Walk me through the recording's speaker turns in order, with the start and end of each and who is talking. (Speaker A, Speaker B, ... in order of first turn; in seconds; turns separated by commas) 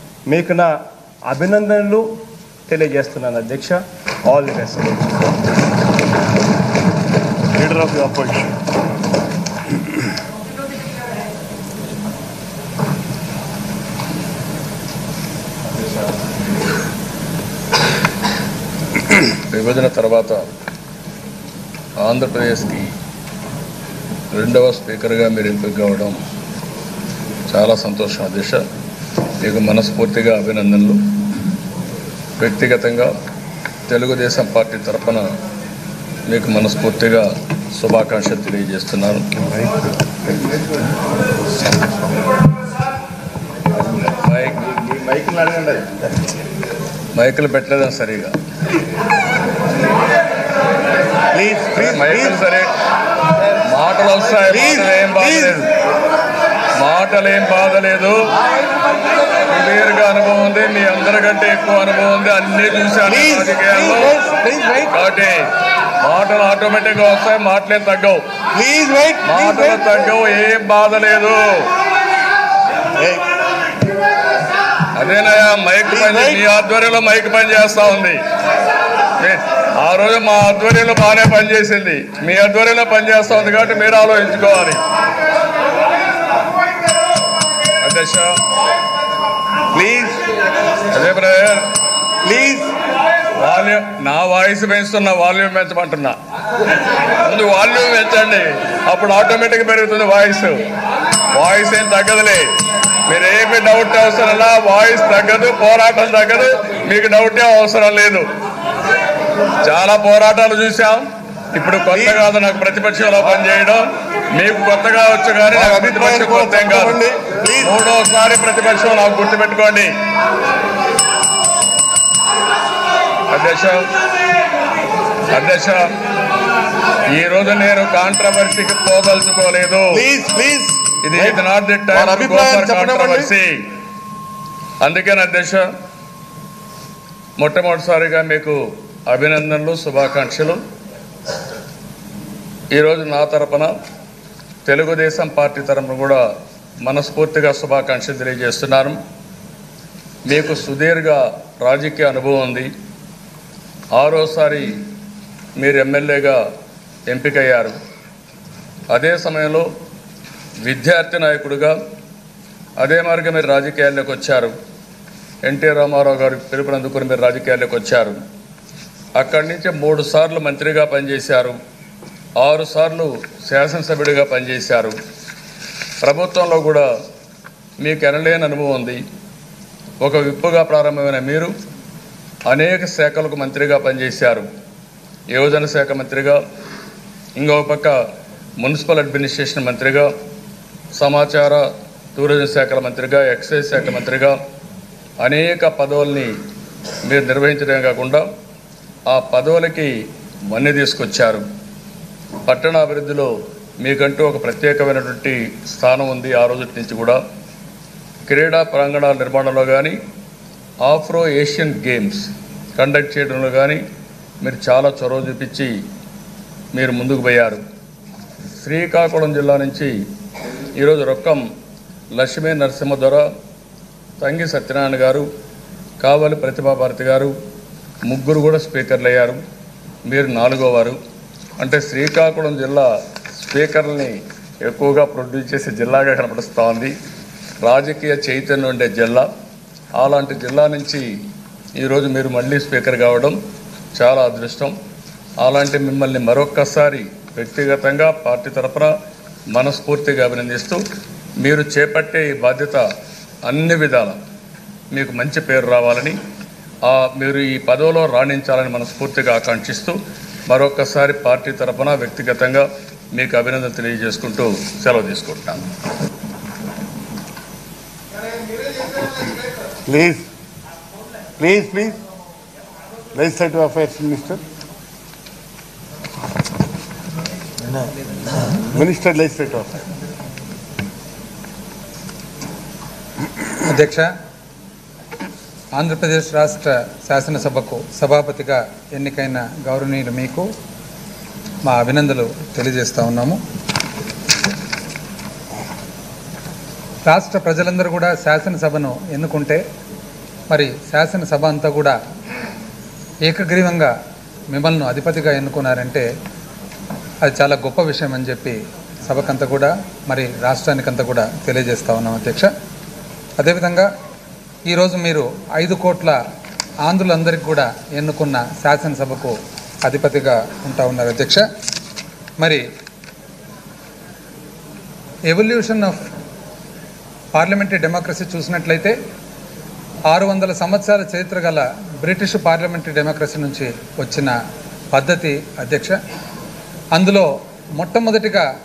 Speaker A: 0.3-0.7, Speaker A: 1.3-5.0, Speaker B: 7.5-8.6, Speaker C: 19.5-20.5, Speaker C: 22.0-22.9, Speaker C: 24.3-26.2, Speaker C: 27.5-28.6, Speaker C: 29.4-31.0, Speaker C: 32.4-33.1, Speaker C: 33.9-35.3, Speaker C: 36.3-39.3, Speaker C: 44.1-44.8, Speaker C: 47.1-48.3, Speaker C: 51.7-52.7, Speaker C: 53.6-55.7, Speaker C: 56.8-58.2, Speaker C: 59.5-65.5, Speaker C: 66.0-68.2, Speaker B: 68.6-69.1, Speaker C: 69.2-71.7, Speaker C: 75.0-78.2, Speaker C: 79.2-84.8, Speaker C: 87.8-88.4, Speaker B: 89.7-90.2, Speaker C: 90.9-91.7, Speaker B: 92.2-92.7, Speaker C: 93.3-96.2, Speaker C: 97.2-100.6, Speaker C: 101.3-102.6, Speaker C: 103.1-108.3, Speaker C: 109.6-117.0, Speaker B: 115.5-117.7, Speaker C: 117.5-119.9, Speaker C: 123.3-123.9, Speaker C: 125.3-125.9, Speaker C: 127.1-130.1, Speaker B: 130.0-130.8, Speaker C: 131.0-133.6, Speaker B: 131.9-133.2, Speaker C: 134.8-135.7, Speaker C: 137.4-140.6, Speaker C: 142.7-143.7, Speaker C: 144.7-146.2, Speaker C: 146.8-149.0, Speaker C: 150.3-152.7, Speaker C: 153.9-154.8, Speaker C: 155.6-156.4, Speaker C: 157.1-157.8, Speaker C: 158.9-159.7, Speaker C: 160.7-161.8, Speaker C: 162.8-164.5, Speaker C: 165.4-168.2, Speaker C: 169.2-171.6, Speaker C: 172.4-175.0, Speaker C: 176.0-176.9, Speaker C: 177.8-179.0, Speaker C: 180.0-181.5, Speaker C: 182.5-184.5, Speaker C: 185.3-186.4, Speaker C: 187.4-187.9, Speaker C: 188.6-190.1, Speaker C: 190.9-194.4, Speaker C: 195.2-196.3, Speaker C: 197.1-198.2, Speaker C: 199.1-199.9, Speaker C: 200.5-201.4, Speaker C: 202.5-207.2, Speaker C: 208.3-210.0, Speaker C: 210.8-213.8, Speaker C: 214.4-215.8, Speaker C: 216.8-217.6, Speaker C: 218.6-219.9, Speaker C: 220.8-221.4, Speaker C: 222.1-223.3, Speaker C: 224.2-225.3, Speaker C: 226.0-227.3, Speaker C: 228.1-229.4, Speaker C: 230.1-231.0, Speaker C: 231.6-232.9, Speaker C: 233.4-236.9, Speaker C: 237.6-239.3, Speaker C: 240.0-241.1, Speaker C: 241.8-243.4, Speaker C: 243.9-244.8, Speaker C: 245.4-248.9, Speaker C: 249.5-250.8, Speaker C: 251.4-252.8, Speaker C: 253.5-254.2, Speaker C: 254.9-256.2, Speaker C: 256.8-265.6, Speaker B: 269.9-270.2, Speaker B: 271.4-272.0, Speaker B: 273.1-274.4, Speaker B: 278.7-279.8, Speaker D: 283.6-284.1, Speaker D: 285.8-290.5, Speaker D: 291.6-293.4, Speaker D: 297.1-299.6, Speaker D: 300.5-302.0, Speaker D: 303.2-303.9, Speaker D: 304.5-306.1, Speaker D: 307.2-312.5, Speaker D: 313.4-313.9, Speaker D: 314.7-316.2, Speaker D: 316.8-321.4, Speaker D: 322.4-322.6, Speaker D: 325.3-326.1, Speaker D: 327.3-328.9, Speaker D: 330.1-334.3, Speaker D: 334.9-336.0, Speaker D: 336.9-338.5